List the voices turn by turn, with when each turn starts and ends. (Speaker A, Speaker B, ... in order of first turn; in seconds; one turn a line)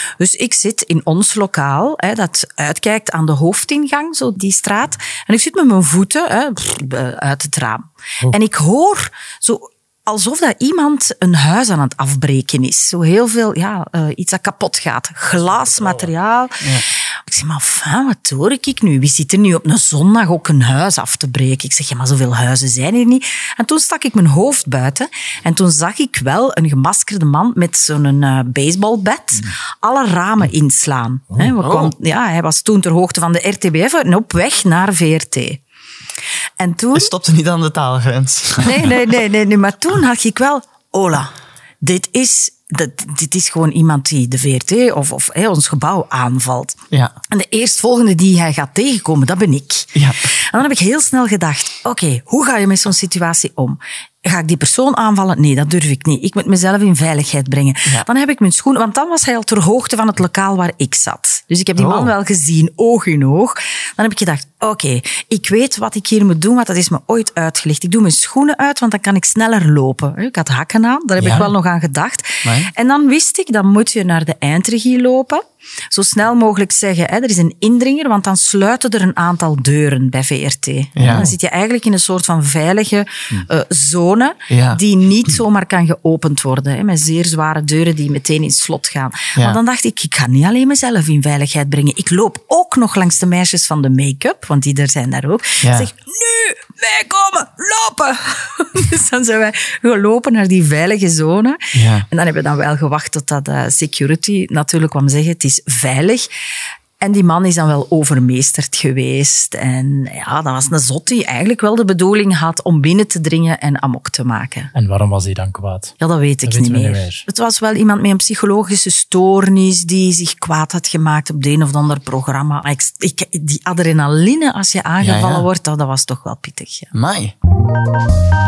Speaker A: 0.2-35.6
Speaker B: 31.4-31.9
Speaker A: 36.6-37.1
Speaker B: 36.9-38.9
Speaker A: 38.6-46.8
Speaker A: 47.3-106.2
Speaker B: 61.8-62.1
Speaker B: 71.2-71.5
Speaker B: 72.4-72.7
Speaker B: 81.0-81.3
Speaker B: 84.5-84.8
Speaker B: 95.6-95.9
Speaker B: 101.7-102.1
Speaker A: 107.0-114.7
Speaker C: 114.7-115.9
Speaker A: 116.0-126.9
Speaker C: 116.5-117.2
Speaker B: 125.0-125.5
Speaker B: 126.9-127.3